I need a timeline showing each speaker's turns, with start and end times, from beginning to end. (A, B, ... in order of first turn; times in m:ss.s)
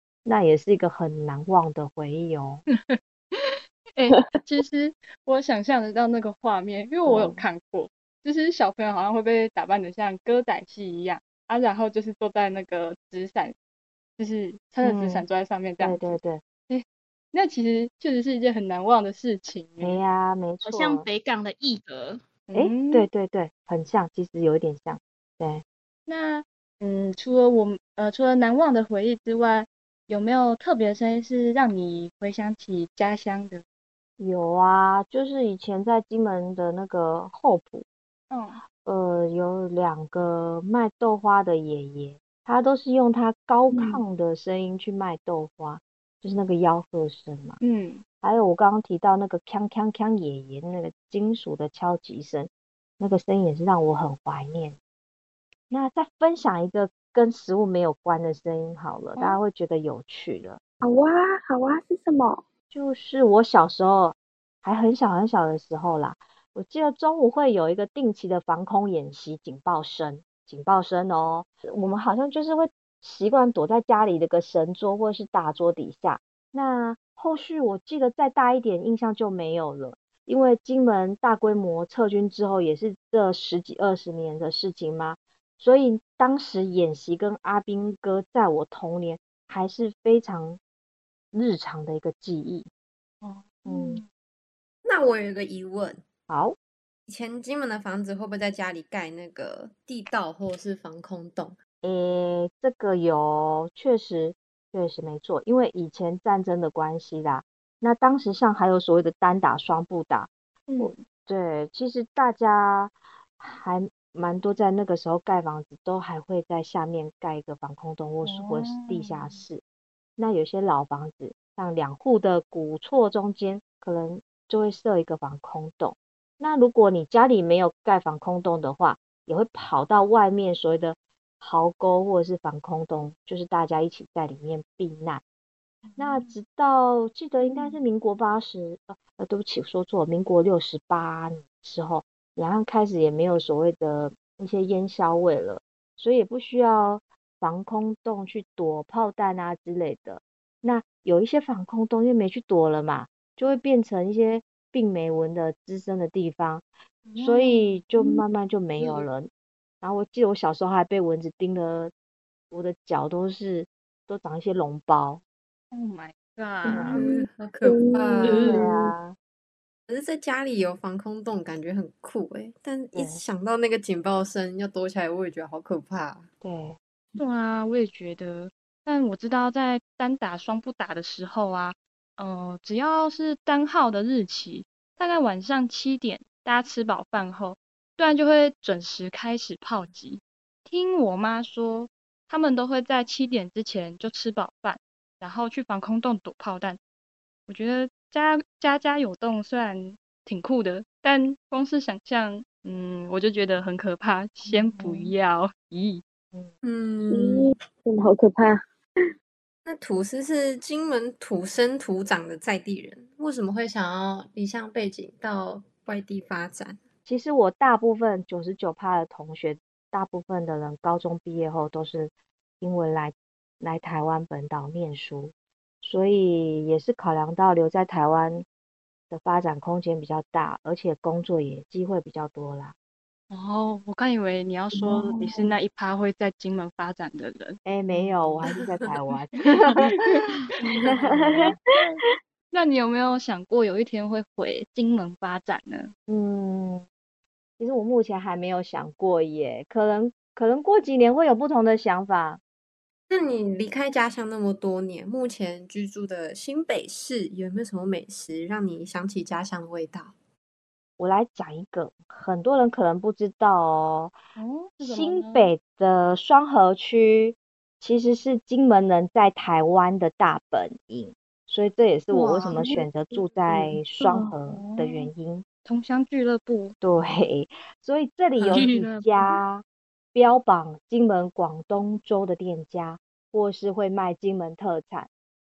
0:00.2-0:02.6 A
0:02.7-0:13.5 B
0:07.0-0:07.4 A
0:14.2-0:20.0 B
0:14.8-0:15.2 A
0:15.8-0:16.4 A
0:19.8-0:21.0 A
0:20.6-0:22.2 C
0:22.5-0:23.1 B
0:22.5-0:25.6 A
0:26.1-0:33.6 B
0:34.2-0:37.8 A
0:38.3-0:38.6 B
0:38.8-0:47.6 A
0:43.7-0:44.0 D
0:47.6-0:48.0 B
0:48.2-0:54.8 A
0:55.7-1:00.6 A
1:00.8-1:02.4 D
1:02.7-1:30.6 A
1:31.3-1:32.7 A
1:33.2-1:34.1 B
1:33.6-1:34.0 A
1:34.8-1:36.0 E
1:36.3-1:36.6 A
1:37.1-1:41.6 E
1:41.8-1:59.6 A
1:50.7-1:51.0 B
1:58.2-1:59.4 B
2:00.2-2:15.2 A
2:15.8-2:16.3 B
2:16.0-2:36.6 A
2:37.0-2:37.8 B
2:37.2-2:39.3 A
2:39.8-2:41.9 A
2:42.5-2:45.2 A
2:45.7-2:46.9 B
2:46.7-2:47.0 A
2:46.7-2:48.9 D
2:46.9-2:48.5 E
2:48.2-2:48.7 B
2:48.4-2:49.2 A
2:49.9-2:56.3 E
2:52.9-2:53.2 A
2:56.4-2:56.8 A
2:57.2-3:16.8 B
3:17.5-3:26.0 B
3:24.4-3:25.1 A
3:26.6-3:27.6 E
3:27.1-3:28.6 D
3:29.6-3:36.8 E
3:37.1-3:48.4 A
3:49.1-3:52.7 A
3:53.3-3:58.4 B
3:54.7-3:55.5 D
3:57.6-3:59.9 A
3:59.6-4:00.3 B
4:00.6-4:01.5 D
4:00.9-4:01.6 A
4:02.5-4:05.9 B
4:06.1-4:06.8 A
4:07.6-4:12.4 A
4:13.1-4:20.1 E
4:21.0-4:24.1 A
4:24.4-4:25.5 B
4:24.8-4:35.4 A
4:32.5-4:34.3 D
4:34.5-4:35.1 B
4:35.6-4:36.7 B
4:36.8-4:45.1 A
4:38.5-4:39.4 C